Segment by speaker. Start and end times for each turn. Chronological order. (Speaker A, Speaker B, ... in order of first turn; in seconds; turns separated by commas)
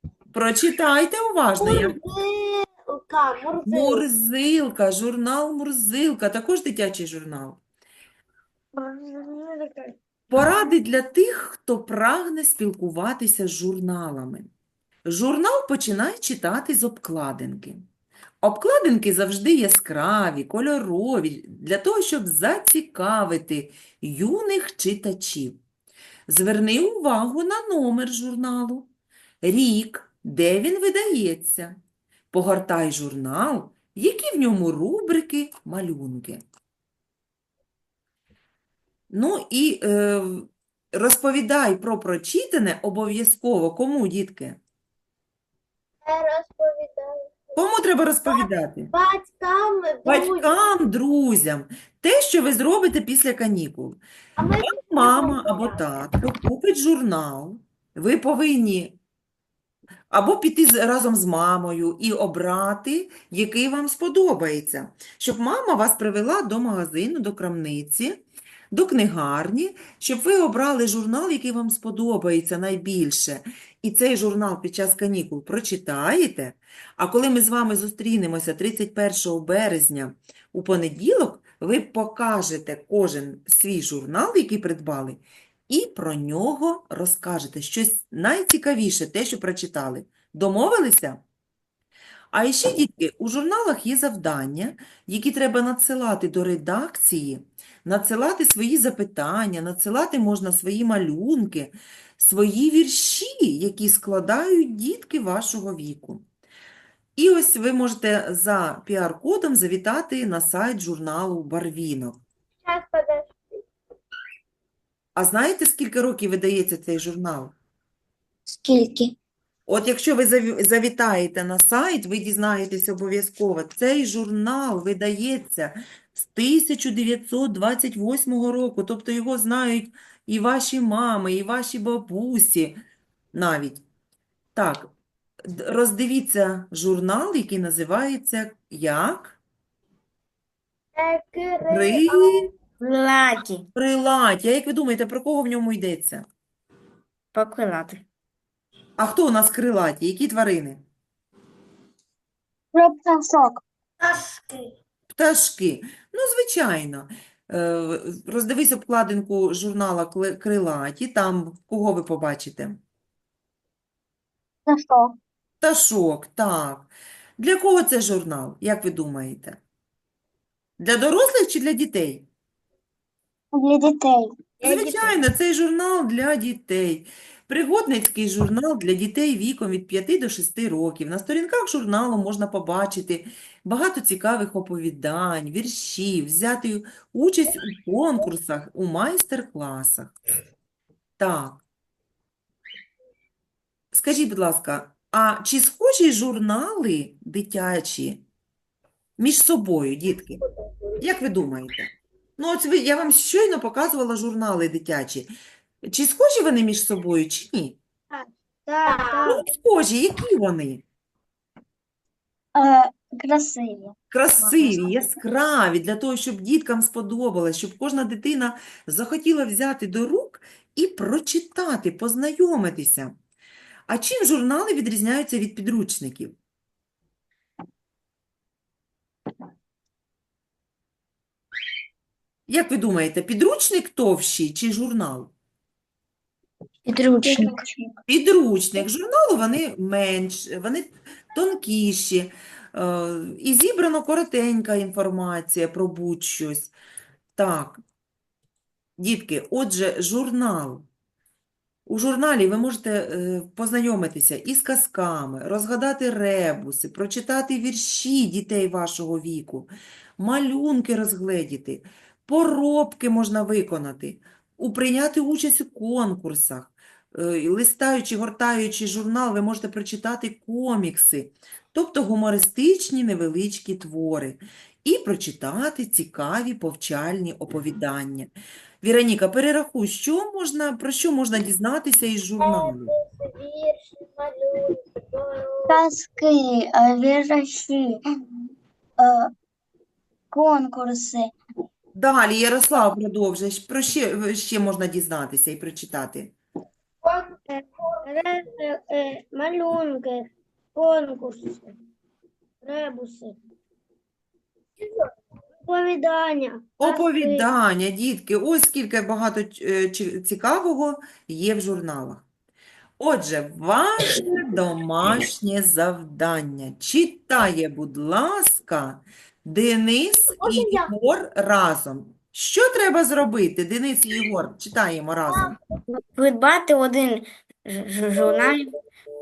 Speaker A: 0.3-1.9, Speaker B: 1.6-4.1, Speaker A: 3.7-7.6, Speaker C: 8.7-9.9, Speaker A: 10.3-14.5, Speaker A: 15.1-17.8, Speaker A: 18.4-25.6, Speaker A: 26.3-28.9, Speaker A: 29.4-31.8, Speaker A: 32.3-36.4, Speaker A: 39.1-44.6, Speaker B: 46.0-47.6, Speaker A: 47.5-48.9, Speaker B: 48.2-50.7, Speaker A: 50.0-54.0, Speaker B: 54.4-55.9, Speaker A: 54.6-59.0, Speaker A: 60.1-68.2, Speaker A: 68.7-91.2, Speaker A: 92.3-106.2, Speaker A: 107.2-112.2, Speaker B: 112.6-113.6, Speaker A: 115.1-117.5, Speaker D: 118.5-119.1, Speaker A: 119.7-132.8, Speaker A: 133.3-133.8, Speaker A: 134.5-134.9, Speaker A: 135.4-139.4, Speaker B: 140.9-142.5, Speaker A: 141.7-142.5, Speaker E: 142.8-143.7, Speaker A: 143.7-146.2, Speaker E: 147.3-148.0, Speaker A: 149.0-150.8, Speaker D: 152.7-153.6, Speaker A: 155.1-162.8, Speaker D: 164.7-165.2, Speaker A: 165.6-169.6, Speaker A: 170.8-172.3, Speaker D: 173.5-174.3, Speaker A: 174.6-190.1, Speaker B: 174.7-175.0, Speaker A: 191.2-191.6, Speaker A: 193.9-198.2, Speaker A: 199.2-200.4, Speaker B: 200.4-201.0, Speaker A: 201.0-205.3, Speaker A: 205.8-207.8, Speaker C: 208.1-209.4, Speaker B: 208.8-209.3, Speaker A: 209.2-210.8, Speaker D: 212.5-215.0, Speaker A: 214.1-223.1, Speaker A: 223.9-226.3, Speaker A: 232.5-235.3, Speaker D: 237.2-237.9, Speaker A: 238.1-246.7, Speaker A: 247.3-247.8, Speaker A: 249.0-250.8, Speaker A: 251.9-282.9, Speaker B: 282.4-285.8, Speaker D: 285.7-288.0, Speaker D: 289.0-289.3, Speaker D: 290.3-291.3, Speaker A: 291.9-296.3, Speaker B: 297.0-298.1, Speaker C: 297.5-301.7, Speaker C: 302.6-303.4, Speaker B: 304.8-305.1, Speaker C: 305.6-307.5, Speaker A: 306.8-312.2, Speaker A: 313.0-325.6, Speaker B: 320.4-320.9, Speaker B: 325.3-325.6, Speaker E: 325.9-328.7, Speaker B: 328.2-328.6